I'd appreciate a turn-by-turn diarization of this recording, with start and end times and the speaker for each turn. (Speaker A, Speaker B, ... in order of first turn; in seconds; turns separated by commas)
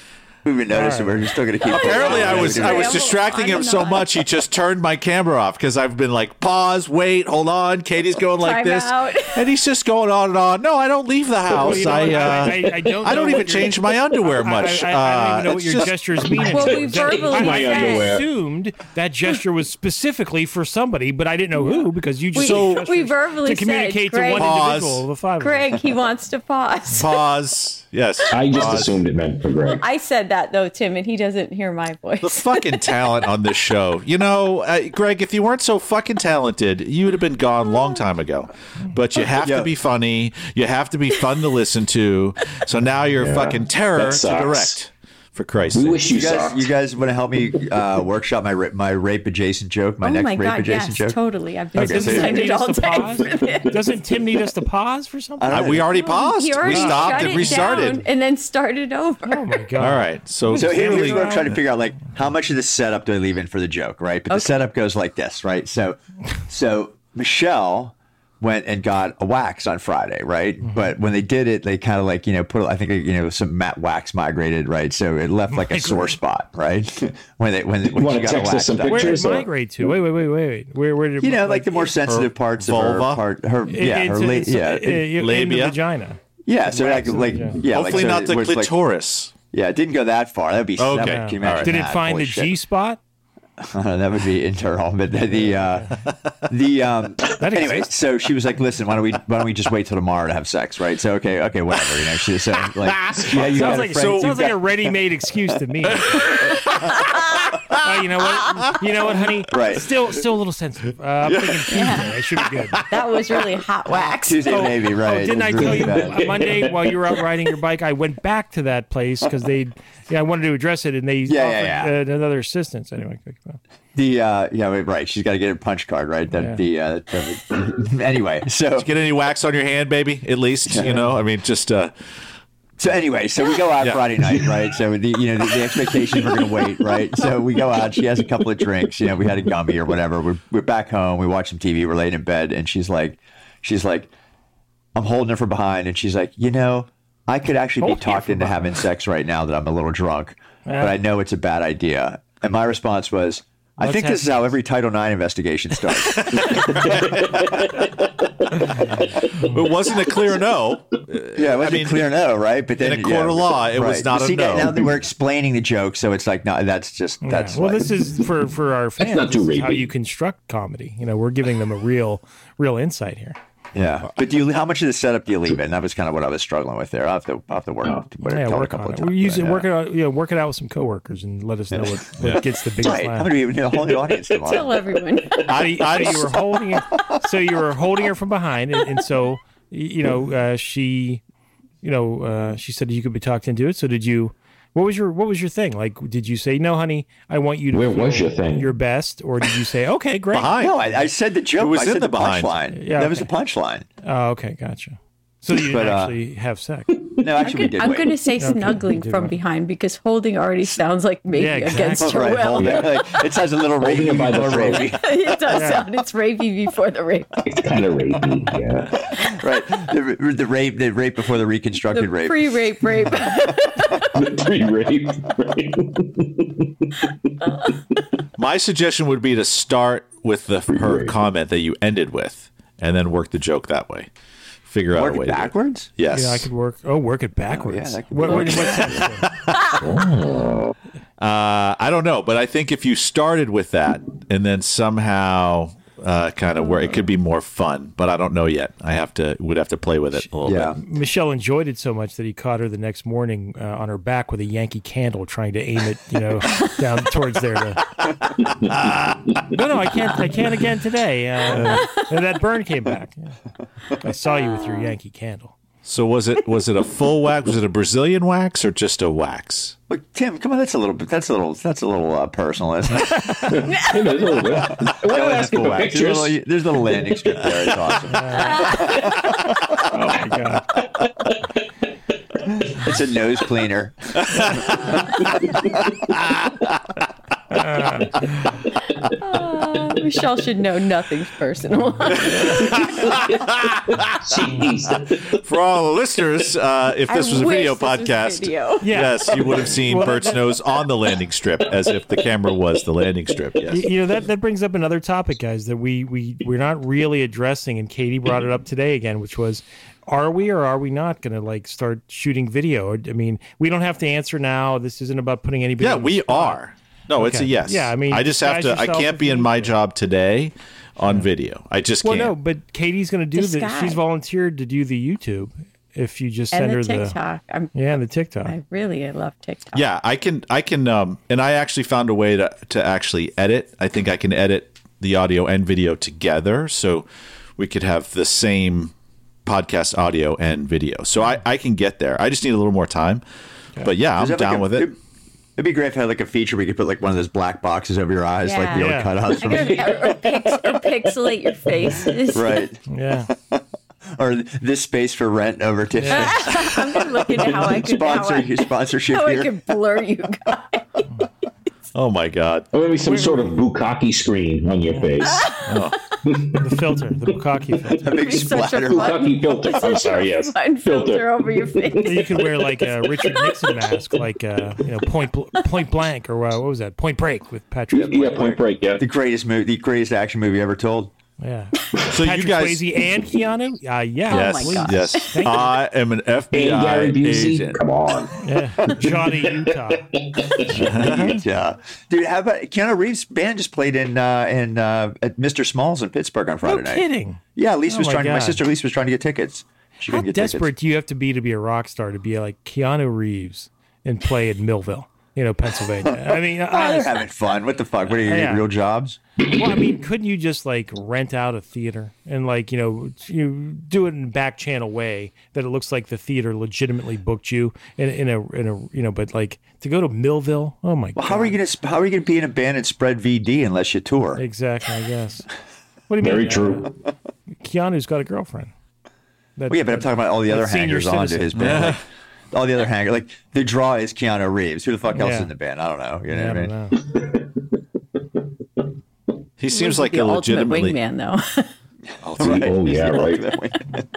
Speaker A: 0.4-3.1, Speaker B: 0.7-1.2, Speaker C: 1.7-4.2, Speaker D: 1.7-15.9, Speaker B: 2.3-2.5, Speaker C: 8.4-9.5, Speaker E: 11.5-13.6, Speaker B: 11.6-25.8, Speaker E: 16.3-18.2, Speaker C: 16.5-18.2, Speaker C: 21.6-24.5, Speaker D: 22.3-22.9, Speaker D: 24.3-25.0, Speaker C: 25.4-27.2, Speaker D: 26.9-29.0, Speaker E: 28.3-29.8, Speaker C: 29.8-32.8, Speaker D: 32.2-46.0, Speaker A: 39.2-39.7, Speaker E: 43.1-44.8, Speaker E: 45.7-46.7, Speaker A: 46.0-51.2, Speaker C: 50.0-53.8, Speaker A: 51.7-52.5, Speaker B: 51.8-55.8, Speaker E: 53.4-53.7, Speaker A: 55.4-56.0, Speaker D: 55.5-58.0, Speaker C: 55.9-59.6, Speaker B: 56.7-57.9, Speaker B: 59.2-61.4, Speaker D: 59.8-61.4, Speaker A: 60.5-79.2, Speaker C: 60.8-61.5, Speaker C: 64.3-64.7, Speaker B: 75.5-76.2, Speaker E: 77.9-79.9, Speaker B: 78.9-81.9, Speaker A: 81.2-85.0, Speaker D: 82.0-83.2, Speaker B: 83.7-87.6, Speaker D: 85.1-85.8, Speaker A: 86.5-88.7, Speaker D: 87.6-89.3, Speaker A: 89.5-92.5, Speaker D: 90.8-91.8, Speaker B: 90.9-93.0, Speaker A: 93.6-104.6, Speaker B: 95.3-95.9, Speaker B: 97.4-97.9, Speaker D: 102.9-104.5, Speaker B: 103.5-106.3, Speaker D: 106.1-107.0, Speaker D: 107.5-107.8, Speaker B: 107.8-112.8, Speaker A: 109.5-109.8, Speaker C: 111.7-112.1, Speaker C: 112.9-114.7, Speaker A: 114.2-116.4, Speaker B: 114.5-123.6, Speaker E: 115.5-117.2, Speaker A: 121.3-121.9, Speaker A: 123.9-128.9, Speaker B: 126.3-126.6, Speaker D: 128.8-131.9, Speaker A: 130.7-131.0, Speaker B: 130.8-131.2, Speaker A: 132.8-144.1, Speaker D: 133.8-134.0, Speaker A: 144.9-156.9, Speaker B: 147.8-148.8, Speaker B: 150.6-150.9, Speaker B: 153.8-154.4, Speaker D: 156.1-157.6, Speaker E: 156.8-157.9, Speaker B: 158.5-159.6, Speaker D: 159.5-162.0, Speaker E: 159.9-160.4, Speaker A: 161.3-168.0, Speaker D: 162.8-164.8, Speaker B: 167.2-173.4, Speaker E: 169.0-169.9, Speaker A: 173.7-179.7, Speaker B: 178.2-183.3, Speaker A: 182.8-184.8, Speaker C: 184.4-185.5, Speaker D: 185.4-186.3, Speaker B: 185.5-191.2, Speaker B: 191.8-200.6, Speaker E: 197.7-198.7, Speaker D: 200.3-200.8, Speaker A: 200.5-203.8, Speaker D: 201.6-202.5, Speaker B: 202.7-203.3, Speaker B: 204.0-206.9, Speaker A: 205.5-206.2, Speaker A: 207.2-208.2, Speaker C: 207.4-212.9, Speaker B: 208.4-209.4, Speaker B: 211.3-212.2, Speaker A: 212.0-215.6, Speaker E: 212.5-213.0, Speaker E: 213.8-215.0, Speaker C: 214.8-217.3, Speaker B: 215.5-215.8, Speaker E: 217.4-218.9, Speaker A: 219.2-222.6, Speaker C: 221.9-224.1, Speaker E: 224.1-227.0, Speaker D: 228.4-234.1, Speaker E: 230.7-231.1, Speaker D: 234.7-236.5, Speaker A: 234.9-235.9, Speaker B: 236.1-239.3, Speaker A: 237.5-239.1, Speaker E: 239.8-240.7, Speaker D: 241.2-250.7, Speaker B: 250.1-257.8, Speaker A: 250.4-250.8, Speaker D: 258.7-259.4, Speaker B: 259.5-263.3, Speaker B: 264.0-265.5, Speaker C: 264.4-264.9, Speaker D: 265.8-269.7, Speaker A: 269.9-273.3, Speaker E: 273.5-276.4, Speaker A: 274.4-279.2, Speaker B: 278.1-278.7, Speaker C: 278.4-279.1, Speaker B: 279.9-280.7, Speaker A: 282.7-284.9, Speaker D: 286.2-286.5, Speaker B: 287.5-288.5, Speaker C: 289.2-293.1, Speaker D: 292.3-294.6, Speaker E: 292.6-295.4, Speaker D: 295.3-303.8, Speaker C: 297.1-298.9, Speaker B: 298.8-300.5, Speaker B: 303.7-316.6, Speaker D: 315.8-322.3, Speaker B: 317.2-319.7, Speaker B: 322.0-327.1, Speaker C: 323.3-324.0, Speaker C: 326.5-327.8, Speaker B: 327.7-328.5, Speaker C: 328.4-329.8, Speaker D: 329.7-337.1, Speaker D: 337.6-338.9, Speaker D: 339.4-343.2, Speaker D: 343.8-344.9, Speaker A: 344.1-344.9, Speaker A: 345.6-350.2, Speaker C: 348.4-352.6, Speaker B: 348.7-349.2, Speaker E: 349.5-350.6, Speaker A: 352.3-352.8, Speaker B: 352.9-353.3, Speaker A: 353.3-353.6, Speaker A: 354.2-359.5, Speaker B: 356.0-356.4, Speaker C: 356.1-360.8, Speaker D: 361.9-362.7, Speaker E: 362.7-365.5, Speaker B: 363.1-363.5, Speaker B: 364.9-365.3, Speaker D: 365.6-365.9, Speaker E: 366.3-366.6, Speaker B: 366.6-368.1, Speaker A: 368.0-369.3, Speaker C: 368.1-372.4, Speaker E: 368.9-374.0, Speaker B: 372.0-378.4, Speaker A: 377.9-381.1, Speaker E: 377.9-379.0, Speaker B: 381.4-385.7, Speaker D: 382.1-382.8, Speaker C: 384.3-385.4, Speaker D: 384.3-387.8, Speaker E: 386.5-388.4, Speaker B: 388.4-390.1, Speaker E: 388.9-390.8, Speaker A: 390.7-400.7, Speaker D: 390.8-391.4, Speaker B: 390.9-391.4, Speaker B: 396.6-398.6, Speaker B: 400.1-407.2, Speaker A: 406.1-409.2, Speaker B: 408.2-408.6, Speaker B: 409.4-421.6, Speaker A: 421.1-424.4, Speaker B: 424.4-425.5, Speaker B: 426.1-426.9, Speaker E: 426.2-426.9, Speaker B: 427.6-428.7, Speaker B: 429.6-431.9, Speaker A: 429.7-436.7, Speaker D: 431.5-432.0, Speaker B: 435.1-435.5, Speaker B: 436.3-437.0, Speaker E: 437.0-437.6, Speaker D: 439.6-441.0, Speaker C: 439.7-441.7, Speaker D: 442.2-442.7, Speaker A: 442.4-444.0, Speaker E: 442.4-443.4